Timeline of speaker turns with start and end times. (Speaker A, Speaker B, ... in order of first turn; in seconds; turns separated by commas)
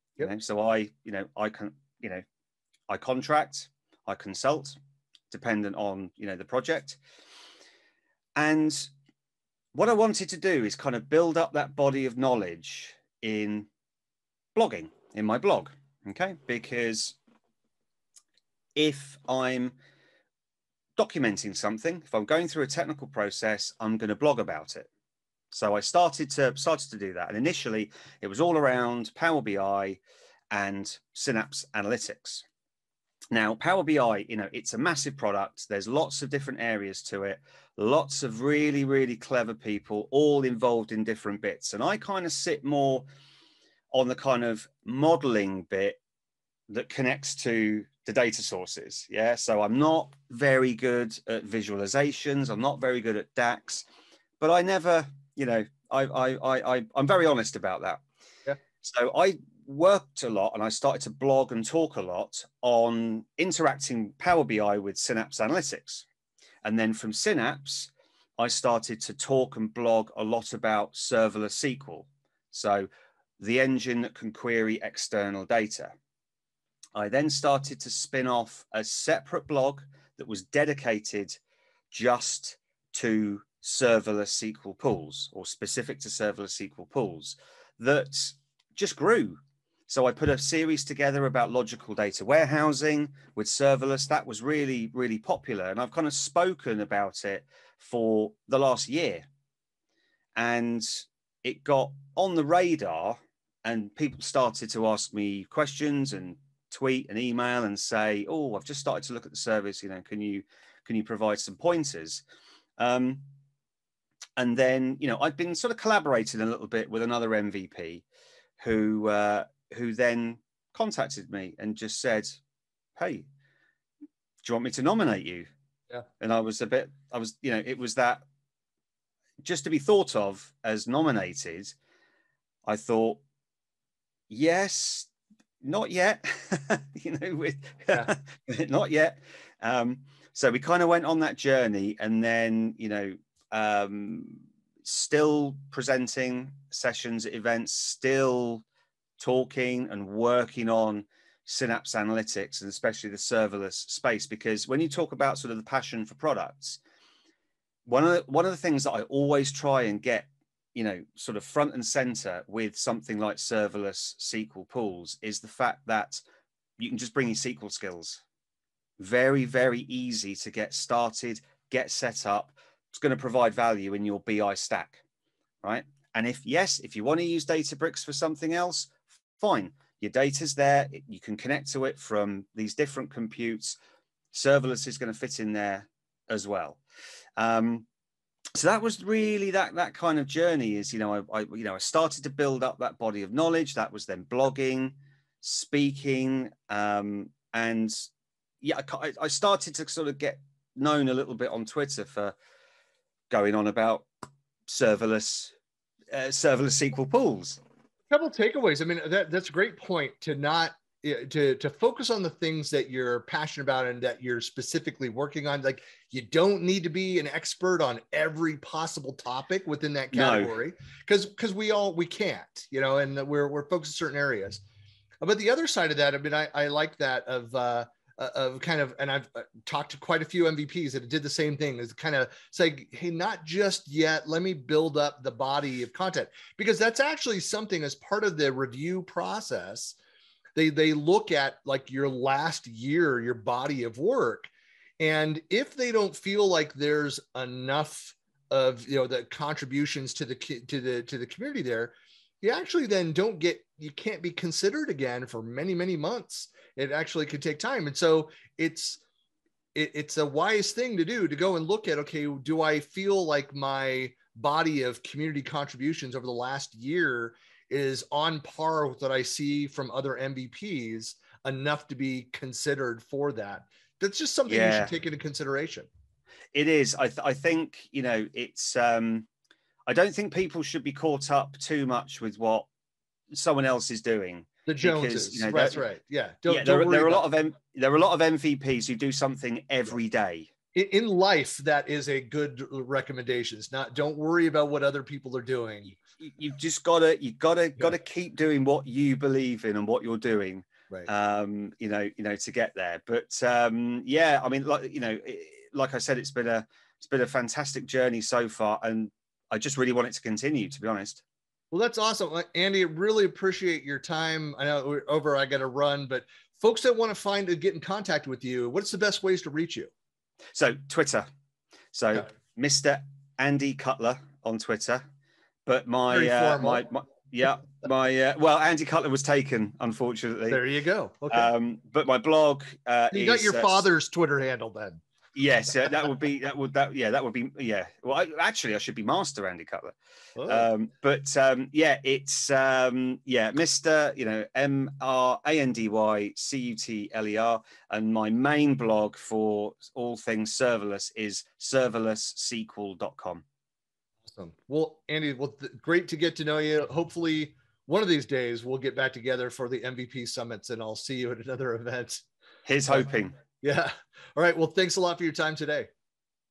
Speaker A: 0.2-2.2, Speaker A: 2.9-4.8, Speaker A: 5.3-7.0, Speaker A: 8.4-8.9, Speaker A: 9.7-13.7, Speaker A: 14.5-17.1, Speaker A: 18.8-19.8, Speaker A: 21.0-24.9, Speaker A: 25.5-30.0, Speaker A: 30.5-32.4, Speaker A: 33.3-43.1, Speaker A: 43.9-46.0, Speaker A: 46.7-53.9, Speaker A: 54.4-58.0, Speaker A: 58.8-66.0, Speaker A: 66.6-72.9, Speaker A: 73.4-75.9, Speaker A: 76.9-81.4, Speaker A: 81.9-99.2, Speaker A: 100.3-112.2, Speaker A: 112.8-113.3, Speaker A: 114.4-118.0, Speaker A: 118.6-122.4, Speaker A: 123.0-123.3, Speaker A: 124.4-125.5, Speaker A: 126.2-128.2, Speaker A: 129.4-131.8, Speaker A: 132.7-133.2, Speaker A: 134.3-135.1, Speaker A: 135.6-148.6, Speaker A: 149.2-156.8, Speaker A: 157.8-166.2, Speaker A: 166.8-168.2, Speaker A: 169.0-175.0, Speaker A: 175.6-183.8, Speaker A: 184.3-186.8, Speaker A: 187.4-187.8, Speaker A: 188.5-198.0, Speaker A: 198.6-202.3, Speaker A: 203.3-204.1, Speaker A: 204.7-205.5, Speaker A: 206.1-207.6, Speaker B: 208.1-224.6, Speaker A: 220.1-220.5, Speaker B: 225.2-240.0, Speaker B: 240.6-259.0, Speaker B: 259.7-275.9, Speaker A: 274.5-274.9, Speaker A: 276.5-279.3, Speaker A: 279.9-282.7, Speaker A: 283.3-285.8, Speaker B: 284.6-287.2, Speaker A: 286.5-290.5, Speaker B: 290.7-296.0, Speaker A: 296.0-311.2, Speaker B: 311.7-319.9, Speaker A: 320.5-321.3, Speaker A: 321.9-325.0, Speaker A: 325.6-330.6, Speaker B: 326.1-326.8, Speaker B: 330.5-331.5, Speaker A: 331.3-333.9, Speaker B: 333.1-335.0, Speaker A: 335.3-339.9, Speaker B: 340.4-340.7, Speaker A: 340.4-353.4, Speaker B: 354.3-362.2, Speaker A: 362.6-363.3, Speaker B: 363.6-365.9